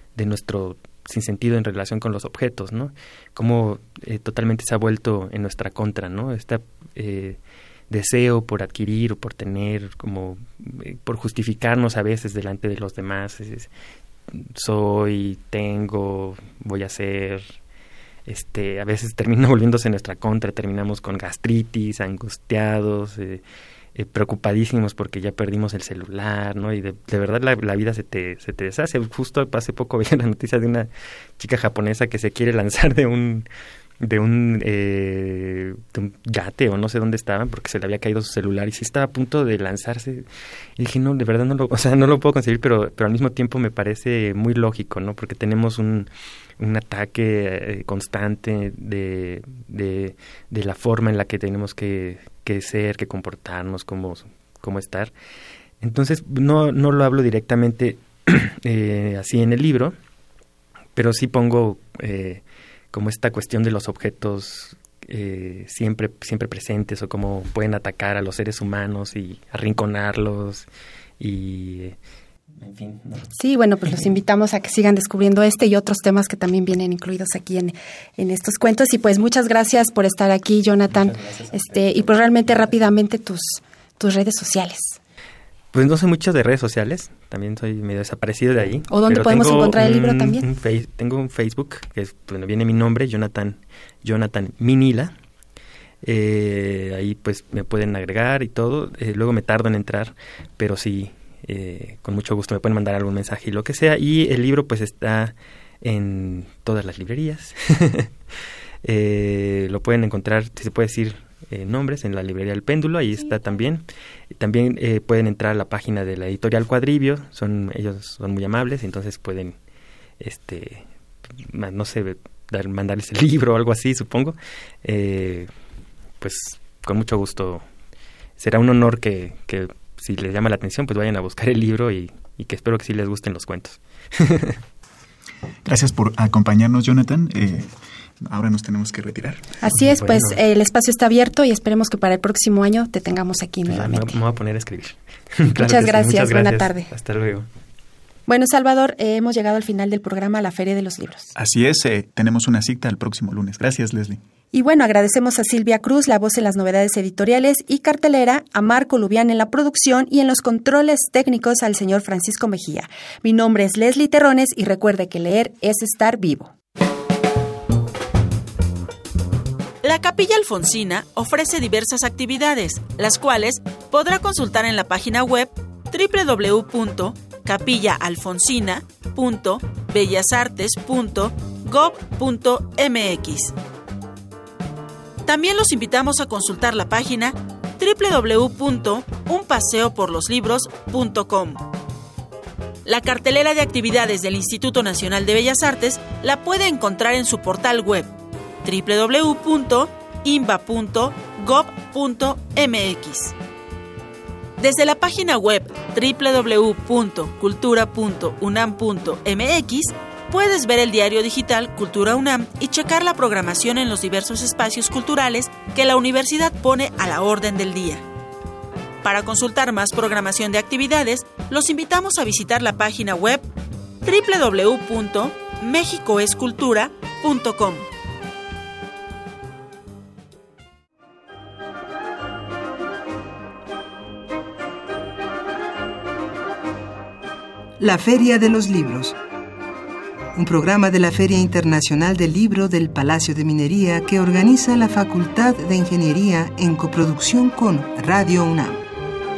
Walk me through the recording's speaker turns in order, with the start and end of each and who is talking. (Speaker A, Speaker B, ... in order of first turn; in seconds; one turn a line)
Speaker A: 0.2-7.4
Speaker A: 7.9-13.7
Speaker A: 14.3-17.5
Speaker A: 18.3-23.4
Speaker A: 23.9-33.5
Speaker A: 34.0-40.3
Speaker A: 40.8-55.1
Speaker A: 55.8-60.0
Speaker A: 61.0-62.4
Speaker A: 62.9-70.7
Speaker A: 71.2-72.0
Speaker A: 72.6-73.3
Speaker B: 73.4-85.0
Speaker A: 80.9-82.1
Speaker A: 85.7-95.1
Speaker B: 88.9-90.4
Speaker A: 96.0-108.1
Speaker A: 108.8-119.5
Speaker A: 120.2-120.9
Speaker A: 121.4-125.5
Speaker A: 126.2-127.6
Speaker A: 128.4-134.6
Speaker C: 135.7-139.5
Speaker B: 139.6-144.2
Speaker A: 139.8-140.4
Speaker A: 143.7-147.5
Speaker B: 145.6-146.9
Speaker B: 148.3-151.3
Speaker C: 151.4-154.2
Speaker B: 154.5-166.5
Speaker D: 169.8-183.5
Speaker D: 185.3-191.7
Speaker D: 192.8-198.1
Speaker D: 198.6-203.3
Speaker D: 204.6-218.0
Speaker D: 219.0-223.5
Speaker D: 224.0-227.9
Speaker E: 237.8-239.2
Speaker E: 240.3-248.8